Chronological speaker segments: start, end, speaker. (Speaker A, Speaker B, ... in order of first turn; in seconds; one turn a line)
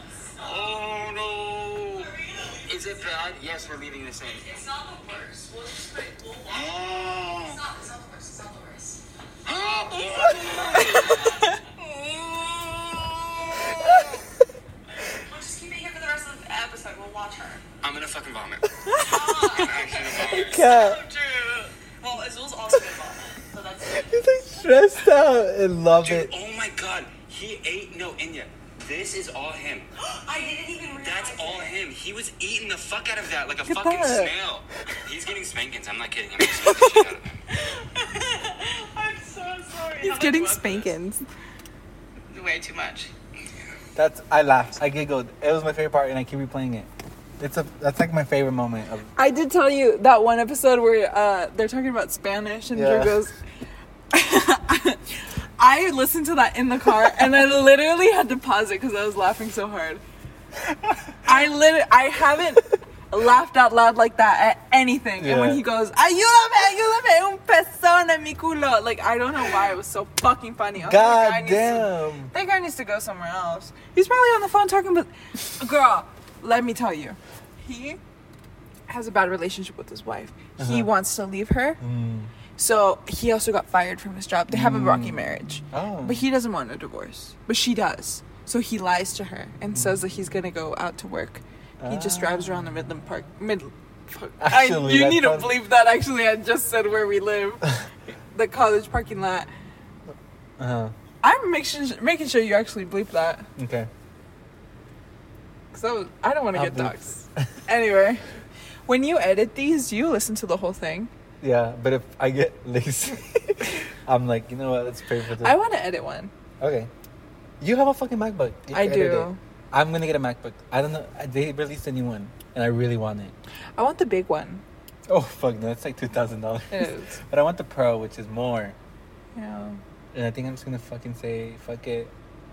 Speaker A: 0.4-2.1
Speaker B: 2.1-2.6
Speaker A: 2.6-4.6
Speaker B: 4.5-9.0
Speaker A: 6.5-7.6
Speaker A: 9.5-11.2
Speaker B: 9.6-14.1
Speaker C: 10.2-10.6
Speaker D: 10.7-11.6
Speaker C: 13.7-14.3
Speaker B: 15.1-17.6
Speaker A: 17.8-18.6
Speaker D: 18.9-19.3
Speaker B: 19.0-24.1
Speaker A: 19.2-20.8
Speaker C: 20.2-21.1
Speaker C: 23.8-26.3
Speaker A: 26.0-29.9
Speaker B: 30.1-31.8
Speaker A: 30.9-37.3
Speaker D: 33.7-34.3
Speaker D: 36.7-37.0
Speaker B: 38.1-40.9
Speaker D: 40.0-41.2
Speaker D: 42.3-43.1
Speaker C: 44.0-49.1
Speaker D: 49.1-53.4
Speaker C: 52.7-53.2
Speaker D: 54.1-60.0
Speaker C: 60.6-61.2
Speaker D: 61.3-78.0
Speaker C: 65.2-65.6
Speaker C: 70.8-72.3
Speaker D: 78.9-81.8
Speaker C: 80.6-80.9
Speaker C: 81.8-82.3
Speaker D: 82.6-97.8
Speaker C: 84.5-86.3
Speaker C: 89.7-90.0
Speaker C: 91.8-92.5
Speaker C: 94.4-95.6
Speaker D: 98.3-99.5
Speaker C: 100.1-101.0
Speaker D: 101.2-103.5
Speaker C: 103.6-103.9
Speaker D: 105.7-111.1
Speaker C: 106.5-107.6
Speaker C: 111.4-115.6
Speaker D: 115.4-116.3
Speaker C: 116.6-116.9
Speaker C: 117.6-123.3
Speaker D: 118.7-119.4
Speaker D: 123.8-124.6
Speaker C: 125.1-128.8
Speaker D: 126.7-127.2
Speaker D: 129.3-129.8
Speaker C: 130.1-132.1